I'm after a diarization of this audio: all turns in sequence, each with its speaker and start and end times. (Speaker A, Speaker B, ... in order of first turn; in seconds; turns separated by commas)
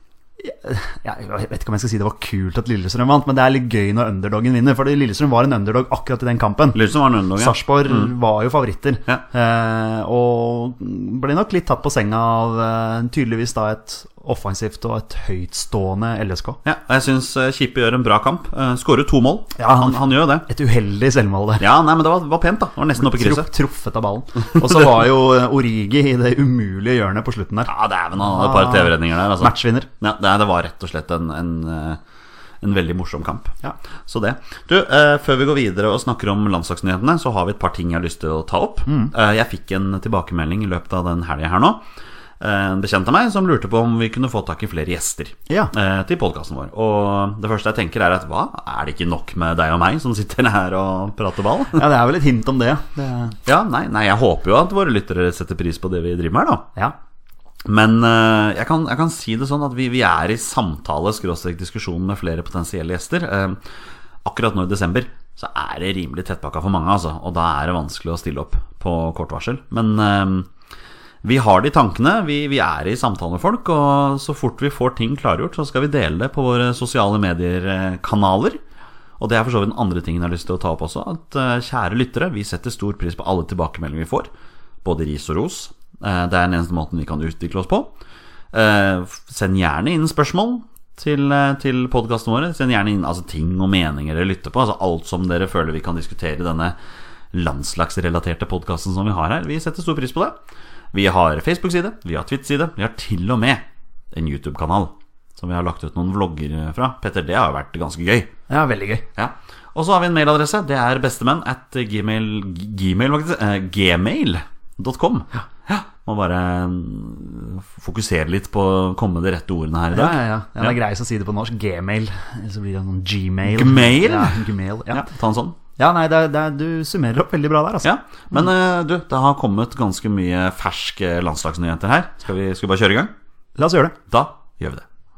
Speaker A: 0.4-6.8, Speaker B: 6.7-8.1, Speaker A: 7.3-16.6, Speaker B: 16.6-20.5, Speaker A: 19.6-21.6, Speaker B: 21.6-23.5, Speaker A: 23.0-29.9, Speaker B: 27.7-32.0, Speaker B: 32.6-41.8, Speaker A: 38.9-39.1, Speaker B: 42.4-51.8, Speaker A: 51.7-53.4, Speaker B: 53.4-56.7, Speaker B: 57.6-63.7, Speaker B: 64.2-70.5, Speaker B: 71.2-78.6, Speaker B: 79.2-84.3, Speaker B: 84.8-87.9, Speaker B: 88.5-96.8, Speaker B: 97.3-100.4, Speaker B: 100.9-108.3, Speaker A: 108.5-109.0, Speaker B: 109.2-120.8, Speaker A: 119.9-125.0, Speaker B: 123.4-125.6, Speaker A: 125.8-128.4, Speaker B: 127.8-133.1, Speaker A: 133.6-133.9, Speaker B: 134.1-134.8